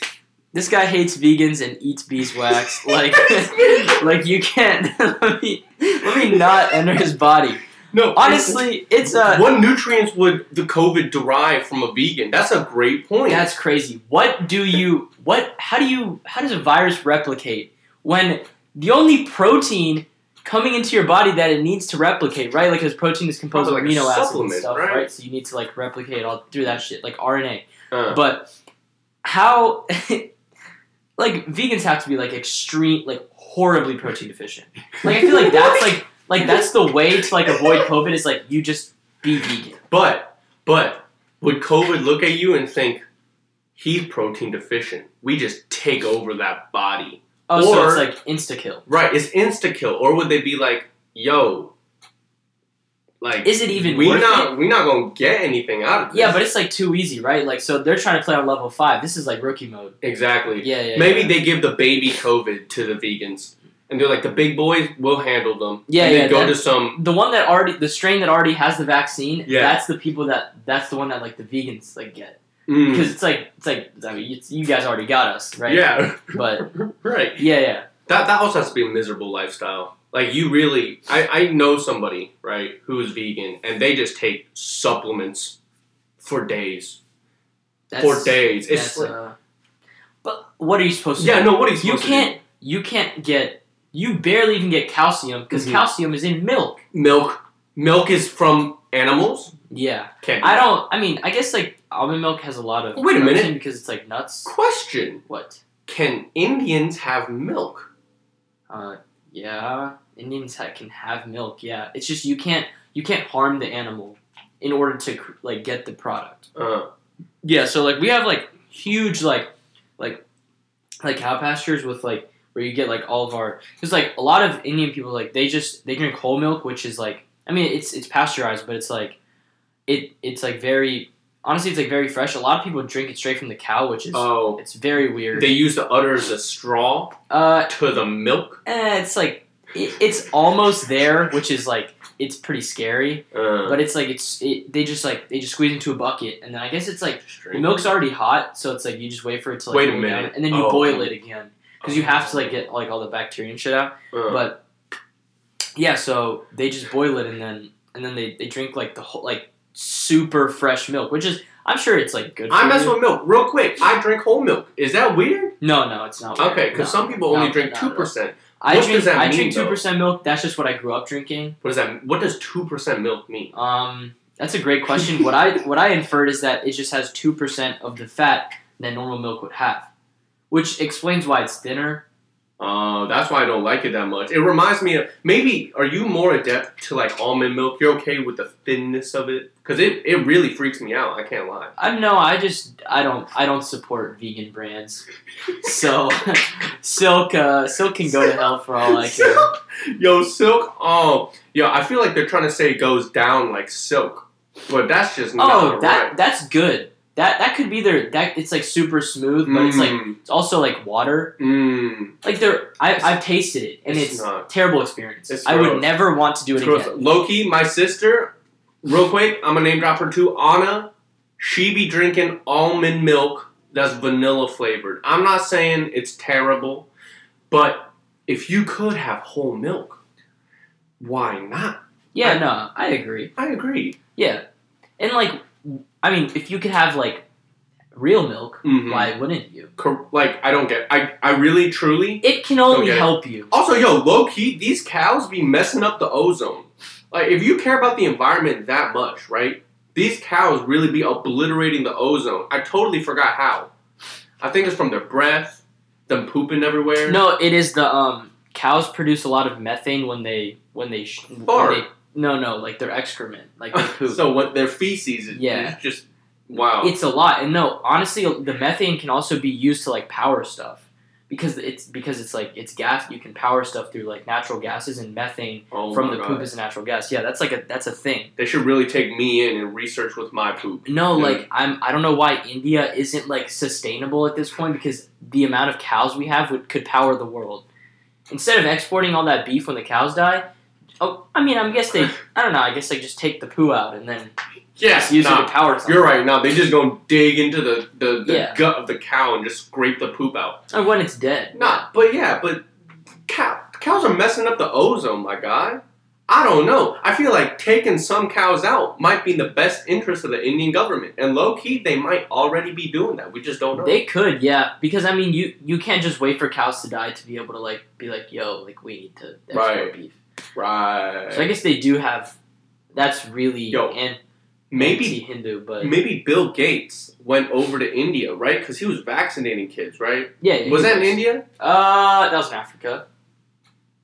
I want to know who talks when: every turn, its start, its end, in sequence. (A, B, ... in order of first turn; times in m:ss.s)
0:00.5-0:07.6 A
0:02.8-0:03.9 B
0:06.2-0:06.5 B
0:07.9-0:13.5 B
0:08.1-0:09.5 A
0:13.3-0:28.5 A
0:23.5-0:25.1 B
0:27.9-0:28.2 B
0:29.2-0:30.3 A
0:31.2-0:39.8 A
0:35.0-0:36.6 B
0:37.5-0:37.8 B
0:39.9-0:43.0 B
0:43.8-0:48.1 B
0:47.5-0:48.8 A
0:48.9-0:51.7 B
0:53.2-0:56.4 B
0:53.4-0:54.6 A
0:56.1-1:00.0 A
1:00.0-1:07.0 B
1:00.6-1:01.4 A
1:05.9-1:16.7 A
1:09.4-1:09.8 B
1:12.7-1:13.2 B
1:15.7-1:17.4 B
1:17.4-1:17.9 A
1:18.1-1:25.6 B
1:26.2-1:27.0 B
1:27.9-1:29.4 A
1:28.0-1:29.1 B
1:30.2-1:36.8 A
1:31.2-1:32.4 B
1:35.5-1:35.8 B
1:36.9-1:39.5 B
1:39.7-1:44.5 A
1:40.2-1:40.7 B
1:43.0-1:43.6 B
1:44.4-1:45.2 B
1:45.2-1:45.6 A
1:45.9-1:47.9 B
1:48.7-1:56.5 A
1:56.5-1:56.9 B
1:57.4-2:00.2 A
2:01.0-2:09.2 A
2:09.9-2:15.6 A
2:14.1-2:14.6 B
2:15.3-2:18.6 B
2:17.3-2:17.7 A
2:18.6-2:34.6 A
2:23.3-2:23.8 B
2:27.2-2:27.8 B
2:29.7-2:31.1 B
2:31.8-2:32.6 B
2:34.1-2:34.4 B
2:35.8-2:43.0 A
2:42.5-2:45.5 B
2:45.6-2:51.6 A
2:46.4-2:49.8 B
2:51.6-2:53.5 B
2:53.5-2:59.9 A
3:00.5-3:02.0 A
3:02.6-3:11.7 B
3:11.8-3:15.0 A
3:15.6-3:19.5 A
3:18.8-3:26.2 B
3:25.4-3:31.4 A
3:29.4-3:30.2 B
3:31.4-3:32.2 B
3:32.2-3:37.0 A
3:33.9-3:34.5 B
3:35.3-3:35.9 B
3:36.6-3:46.9 B
3:47.5-3:50.0 B
3:51.0-3:52.5 B
3:52.1-3:53.3 A
3:53.4-3:54.0 B
3:54.2-3:54.4 A
3:55.0-3:57.2 A
3:57.9-3:59.7 A
3:58.6-3:59.1 B
3:59.8-4:13.7 B
4:02.2-4:03.5 A
4:14.4-4:17.2 B
4:17.0-4:24.2 A
4:21.5-4:21.8 B
4:23.7-4:26.9 B
4:25.3-4:25.8 A
4:26.8-4:38.3 A
4:35.7-4:36.5 B
4:38.4-4:41.4 B
4:40.8-4:47.6 A
4:48.3-4:50.5 A
4:51.0-4:54.3 A
4:54.8-5:00.6 B
4:54.9-4:56.1 A
4:58.2-4:58.6 A
5:00.7-5:01.8 A
5:01.5-5:02.6 B
5:03.3-5:14.0 B
5:13.8-5:20.2 A
5:19.5-5:19.9 B
5:20.5-5:21.5 B
5:21.3-5:22.4 A
5:22.9-5:24.2 A
5:23.7-5:24.0 B
5:24.7-5:25.2 B
5:24.8-5:26.0 A
5:25.8-5:31.4 B
5:30.4-5:33.0 A